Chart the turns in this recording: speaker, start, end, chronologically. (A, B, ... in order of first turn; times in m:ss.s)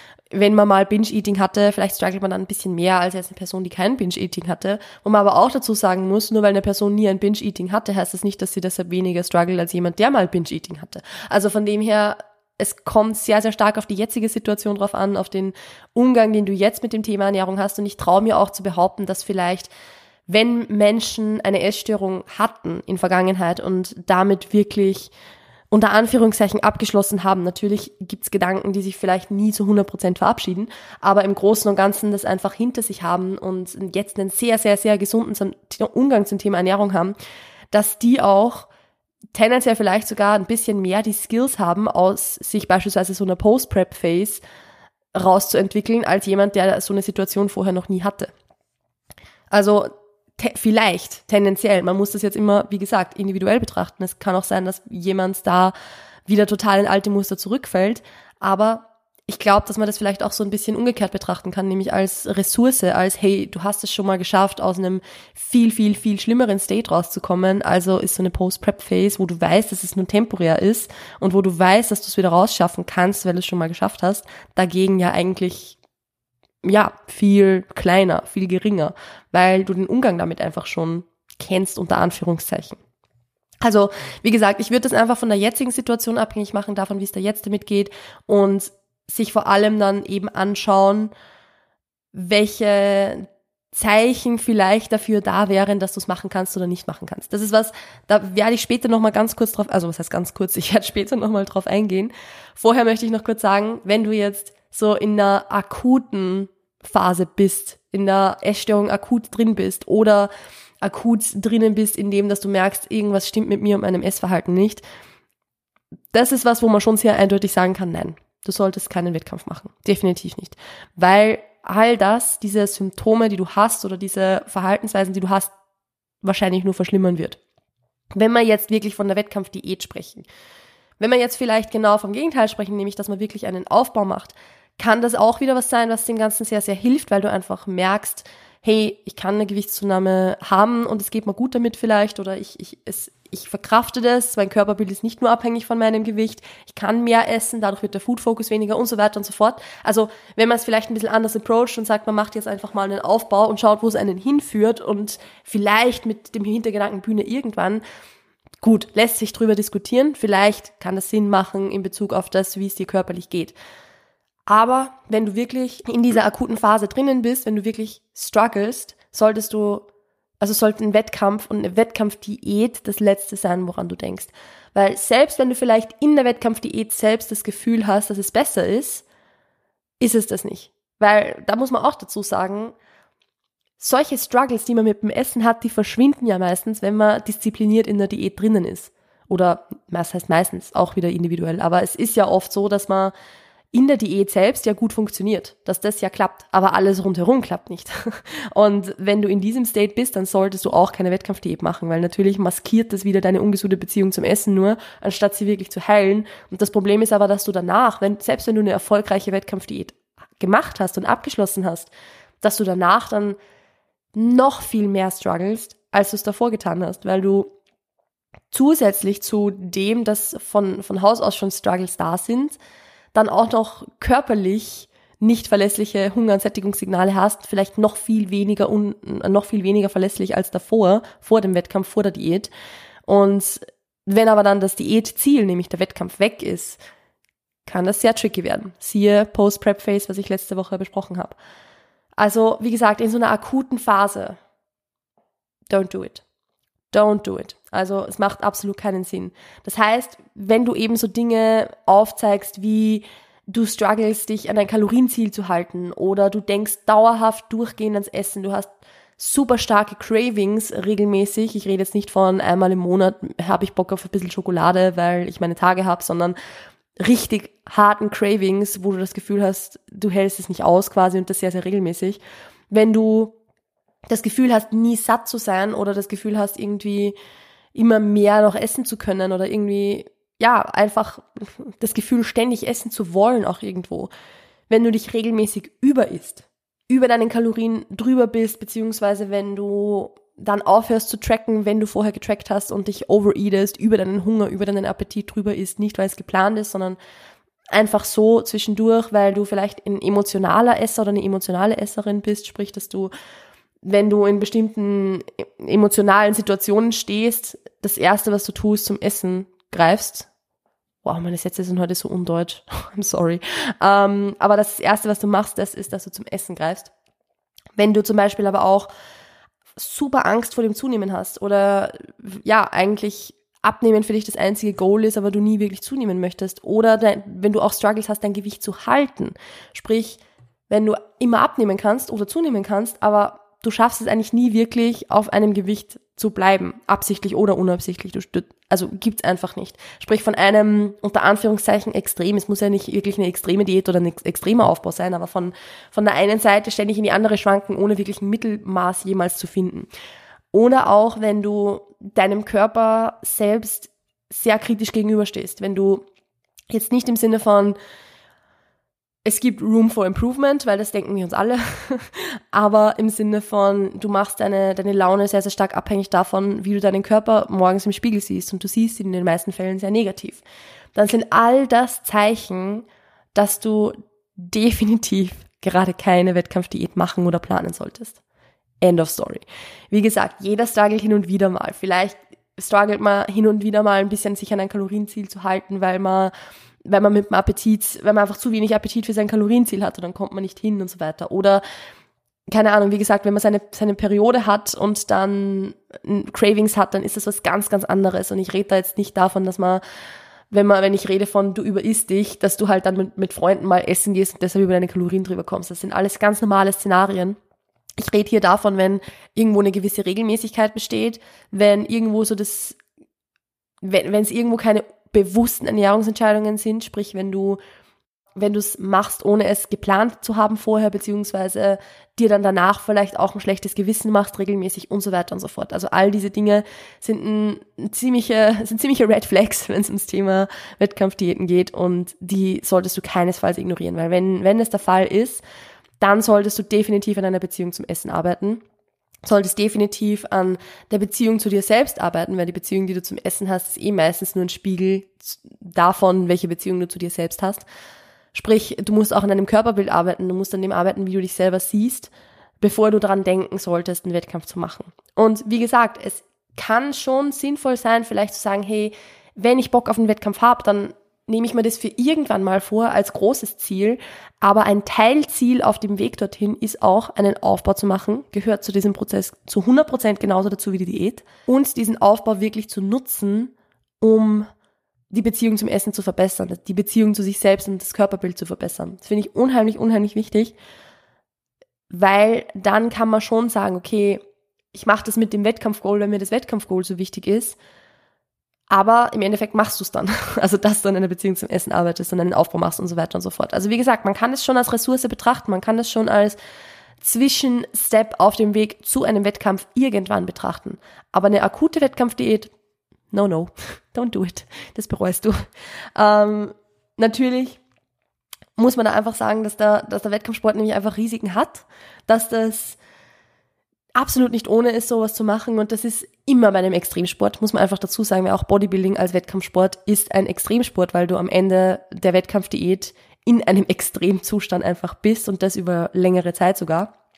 0:00.3-0:19.7 A
0:20.3-0:25.1 A
0:25.7-0:37.2 A
0:37.7-0:38.7 A
0:39.3-0:44.4 A
0:45.2-0:48.3 A
0:49.5-0:55.7 A
0:56.3-1:15.8 A
1:16.6-1:22.8 A
1:23.6-1:31.1 A
1:32.1-1:50.3 A
1:50.8-1:54.8 A
1:56.1-2:05.5 A
2:06.2-2:07.4 A
2:08.2-2:10.3 A
2:11.0-2:37.8 A
2:38.6-2:43.5 A
2:44.5-2:49.9 A
2:50.4-2:59.0 A
3:00.0-3:02.8 A
3:03.8-3:13.1 A
3:13.7-3:31.9 A
3:32.4-3:33.4 A
3:34.2-3:37.5 A
3:38.5-3:42.6 A
3:43.1-3:52.5 A
3:53.1-3:56.8 A
3:57.7-4:01.4 A
4:02.2-4:04.4 A
4:05.7-4:06.2 A
4:06.9-4:26.4 A
4:27.0-4:33.4 A
4:34.1-4:37.2 A
4:37.8-4:44.1 A
4:44.7-4:57.0 A
4:57.7-5:03.1 A
5:03.8-5:10.3 A
5:11.0-5:16.9 A
5:17.8-5:18.9 A
5:19.8-5:49.9 A
5:50.5-5:56.0 A
5:56.7-5:57.8 A
5:59.2-6:10.4 A
6:11.0-6:18.2 A
6:18.8-6:26.3 A
6:26.8-6:31.6 A
6:32.5-6:39.8 A
6:40.5-6:47.4 A
6:48.0-6:52.8 A
6:53.8-6:57.6 A
6:58.4-7:15.4 A
7:16.0-7:18.6 A
7:19.2-7:27.6 A
7:28.3-7:54.5 A
7:55.1-8:00.6 A
8:01.9-8:04.2 A
8:04.7-8:07.6 A
8:08.7-8:16.4 A
8:17.0-8:22.5 A
8:23.1-8:25.4 A
8:26.0-8:27.6 A
8:28.6-8:32.8 A
8:34.0-8:46.9 A